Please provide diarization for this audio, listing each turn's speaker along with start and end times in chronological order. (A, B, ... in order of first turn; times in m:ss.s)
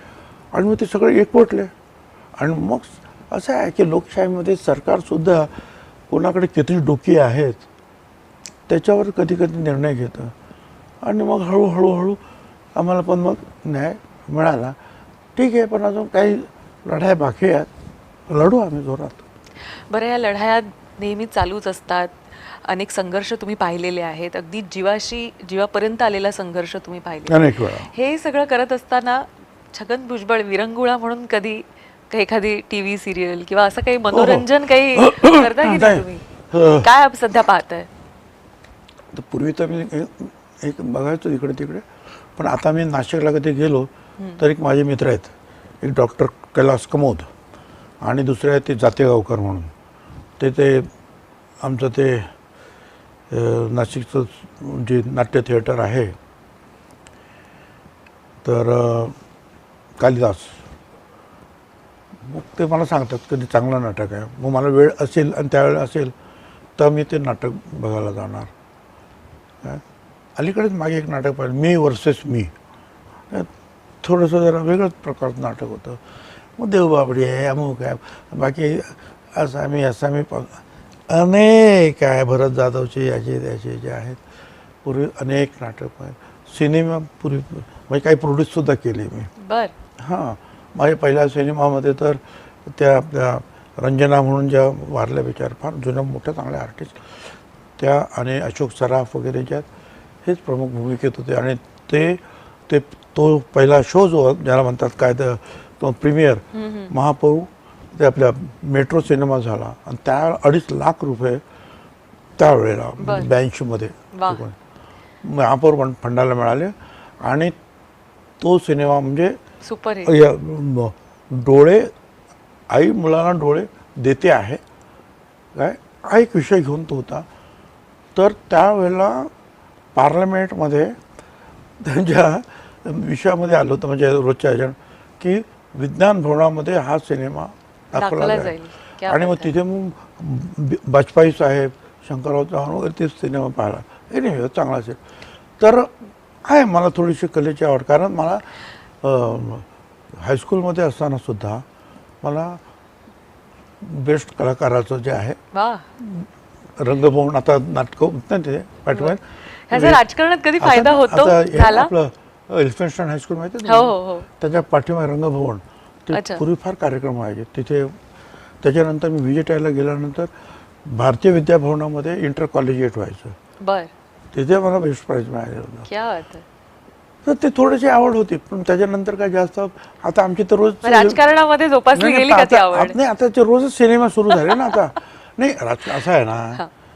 0:00.5-0:01.7 A
0:02.4-0:05.5 A
0:06.1-0:07.6 A
0:08.7-0:10.3 A
0:11.0-0:12.2 A
0:12.8-0:14.8 A
0:15.4-0:17.7 A
0:18.3-0:19.2 A
0:19.9-0:36.2 B
0:27.3-0:27.9 A
0:34.1-0:36.9 A
0:36.8-0:37.9 B
0:39.1-0:47.3 A
0:48.0-0:49.7 A
0:50.4-0:50.9 A
0:51.6-0:52.3 A
0:53.3-0:56.2 A
0:58.4-0:59.2 A
1:00.0-1:00.6 A
1:02.3-1:06.1 A
1:06.8-1:08.5 A
1:10.4-1:12.5 A
1:14.0-1:16.0 A
1:16.6-1:24.2 A
1:24.8-1:29.3 A
1:29.4-1:29.7 B
1:30.0-1:39.7 A
1:40.2-1:51.4 A
1:46.5-1:46.9 B
1:52.4-1:54.6 A
1:53.0-1:53.3 B
1:54.1-1:54.4 B
1:55.2-1:57.6 A
1:58.4-1:59.4 A
1:59.6-2:00.1 B
2:00.0-2:01.9 A
2:02.7-2:04.6 A
2:05.6-2:07.3 A
2:08.2-2:09.3 A
2:10.0-2:11.0 A
2:11.8-2:25.0 A
2:17.9-2:19.5 B
2:25.6-2:25.9 A
2:26.4-2:28.5 A
2:29.0-2:29.7 A
2:30.2-2:31.6 A
2:32.2-2:32.6 A
2:33.8-2:35.4 A
2:35.5-2:35.9 B
2:36.0-2:40.0 A
2:39.7-2:41.9 B
2:40.6-2:48.0 A
2:43.7-2:44.3 B
2:46.1-2:46.4 B
2:48.6-2:50.3 A
2:50.8-2:53.4 A
2:53.6-2:53.9 B
2:54.3-2:55.9 A
2:55.9-2:56.4 B
2:57.2-3:01.2 A
3:00.8-3:03.0 B
3:01.9-3:06.6 A